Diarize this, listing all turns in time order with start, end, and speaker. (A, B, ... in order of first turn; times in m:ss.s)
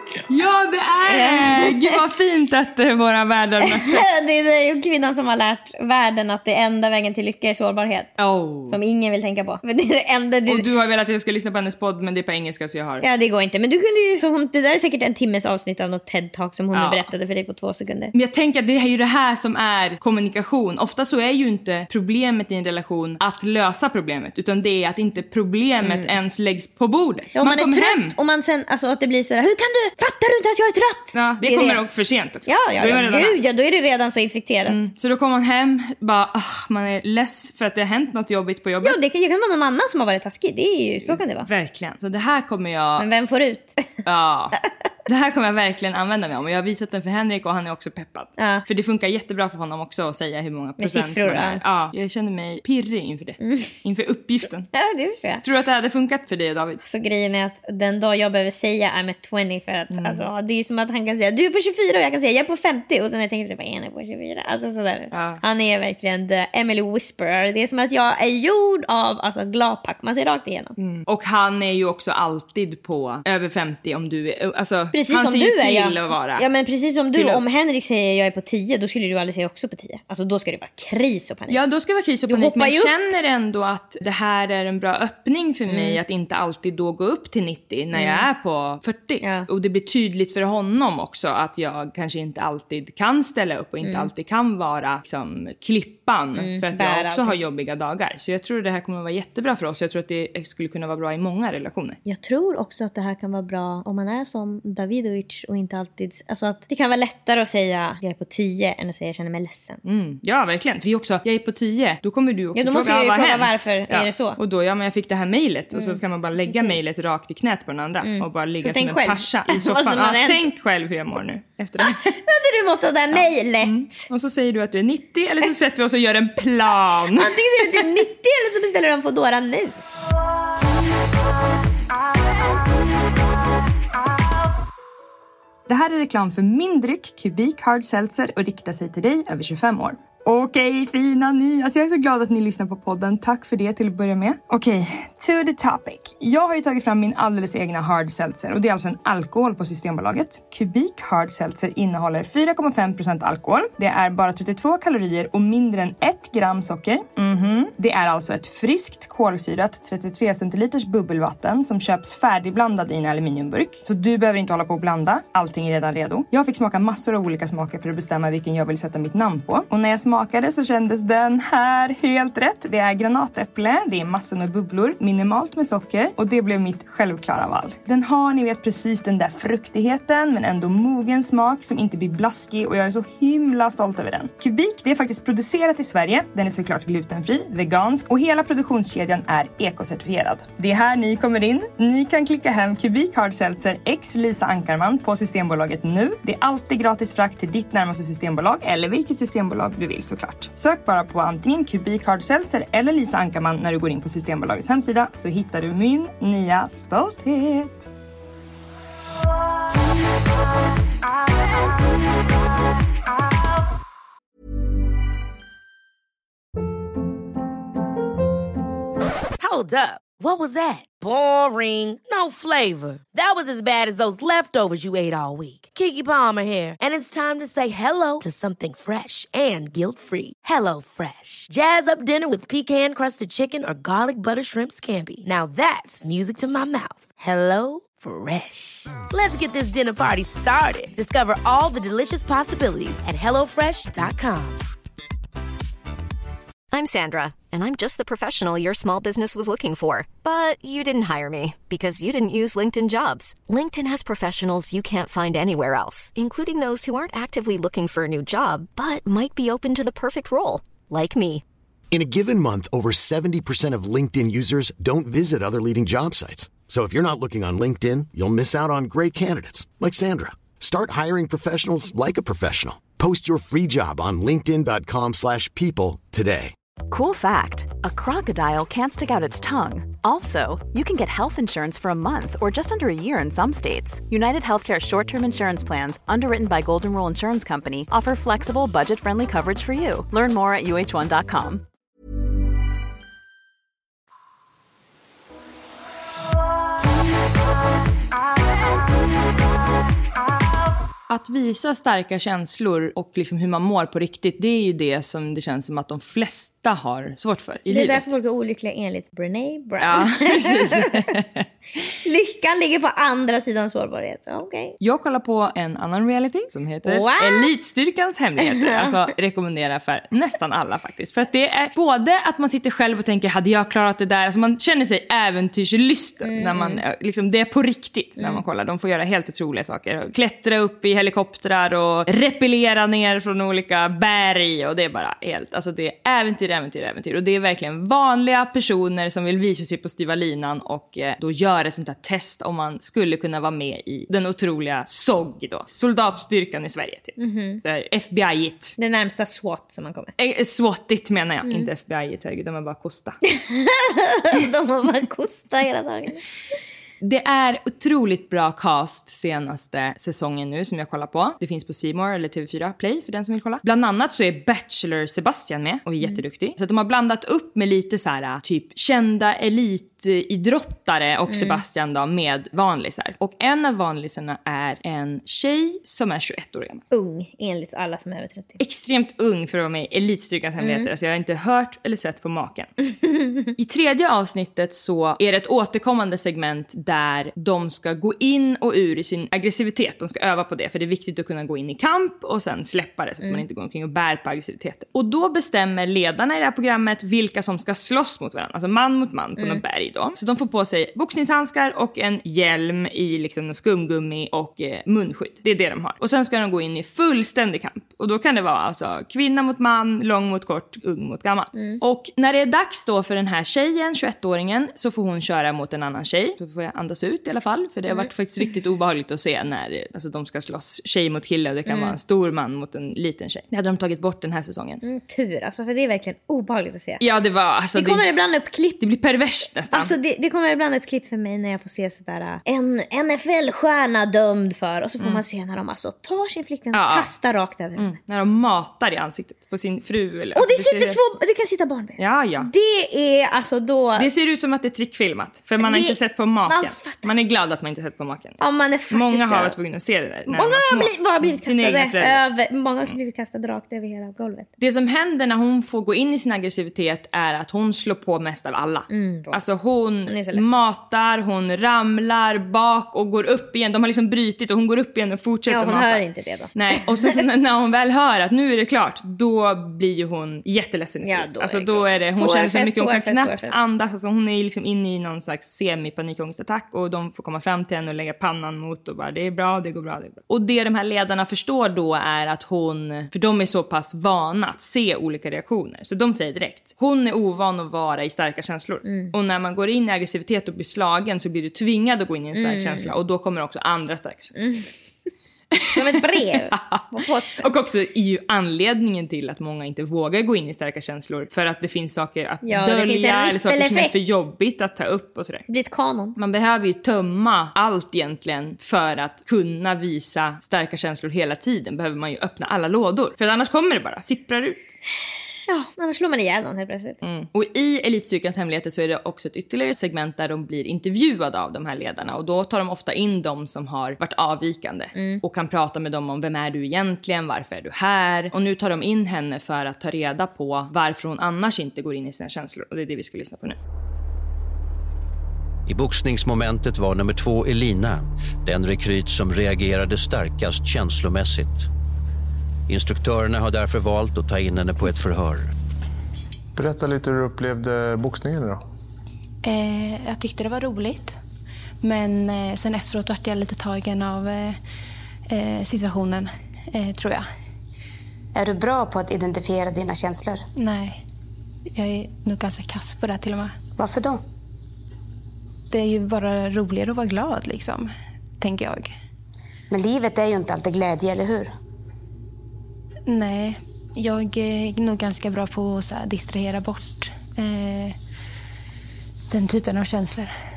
0:00.3-0:04.1 A
0:01.1-0:02.0 B
0:03.6-0:08.1 B
0:08.2-0:08.8 A
0:08.7-0:10.7 B
0:10.5-0:13.0 A
0:13.0-0:18.1 B
0:16.7-0:17.1 A
0:18.1-0:28.2 A
0:25.8-0:26.1 B
0:27.4-0:31.8 B
0:31.1-0:33.4 A
0:32.5-0:34.8 B
0:34.7-0:39.0 A
0:38.8-0:41.5 B
0:41.0-0:43.1 A
0:43.0-0:43.9 B
0:44.0-0:54.7 A
0:48.4-0:48.7 B
0:50.8-0:51.6 B
0:53.4-0:53.7 B
0:54.7-0:55.4 B
0:55.4-0:56.8 A
0:56.8-1:10.8 B
0:59.9-1:00.2 A
1:05.1-1:05.4 A
1:10.8-1:16.5 A
1:14.9-1:21.6 B
1:17.1-1:17.4 A
1:21.5-1:42.0 A
1:22.3-1:22.9 B
1:25.7-1:26.0 B
1:27.9-1:28.2 B
1:29.2-1:29.5 B
1:33.8-1:34.1 B
1:36.4-1:37.4 B
1:42.1-1:49.8 B
1:49.8-2:02.2 A
1:52.6-1:54.4 B
1:55.7-1:56.8 B
1:58.0-2:00.4 B
2:01.8-2:04.1 B
2:03.1-2:07.4 A
2:07.1-2:09.8 B
2:15.7-3:27.9 A
3:39.4-4:04.6 C
4:06.7-4:21.4 D
4:21.9-4:36.5 E
4:36.9-4:51.6 F
5:01.1-5:08.2 A
5:07.7-5:11.1 B
5:09.8-5:11.5 A
5:12.0-5:14.8 B
5:14.8-5:48.8 A
5:16.8-5:17.5 B
5:18.6-5:18.9 B
5:26.2-5:26.8 B
5:47.2-5:47.6 B
5:48.8-5:50.1 B
5:50.2-5:53.2 A
5:51.4-5:51.7 B
5:53.3-5:56.2 B
5:57.0-6:16.8 A
6:11.3-6:11.6 B
6:16.9-6:18.6 B
6:18.6-6:22.7 A
6:20.6-6:20.9 B
6:23.0-6:23.5 B
6:23.6-7:04.8 A
6:39.4-6:39.6 B
6:51.6-6:51.8 B
7:01.7-7:02.0 B
7:04.8-7:07.0 B
7:07.0-7:08.1 A
7:07.7-7:08.8 B
7:08.8-7:09.9 A
7:09.7-7:18.0 B
7:16.7-7:17.1 A
7:17.8-7:21.0 A
7:20.4-7:24.1 B
7:22.0-7:22.5 A
7:24.0-7:28.4 A
7:25.6-7:27.1 B
7:28.4-7:29.6 B
7:28.9-7:32.2 A
7:30.3-7:34.5 B
7:34.6-7:46.0 A
7:38.9-7:39.4 B
7:40.1-7:40.4 B
7:45.5-7:46.5 B
7:46.5-8:14.4 A
7:51.0-7:53.6 B
8:08.8-8:09.1 B
8:12.4-8:12.9 B
8:14.4-8:14.7 B
8:15.5-8:25.4 A
8:15.7-8:17.5 B
8:22.4-8:24.0 B
8:25.5-8:26.2 B
8:26.2-8:34.8 A
8:35.5-8:37.0 B
8:37.0-8:53.6 A
8:45.0-8:45.2 B
8:55.7-9:01.7 G
9:02.7-9:05.5 G
9:06.6-9:08.6 H
9:09.4-9:11.2 I
9:11.8-9:14.6 I
9:15.3-9:17.3 I
9:18.4-9:20.4 J
9:20.6-9:21.0 I
9:21.8-9:23.6 I
9:23.8-9:24.2 J
9:25.7-9:28.9 I
9:29.7-9:31.5 J
9:33.1-9:38.0 I
9:39.3-9:40.3 I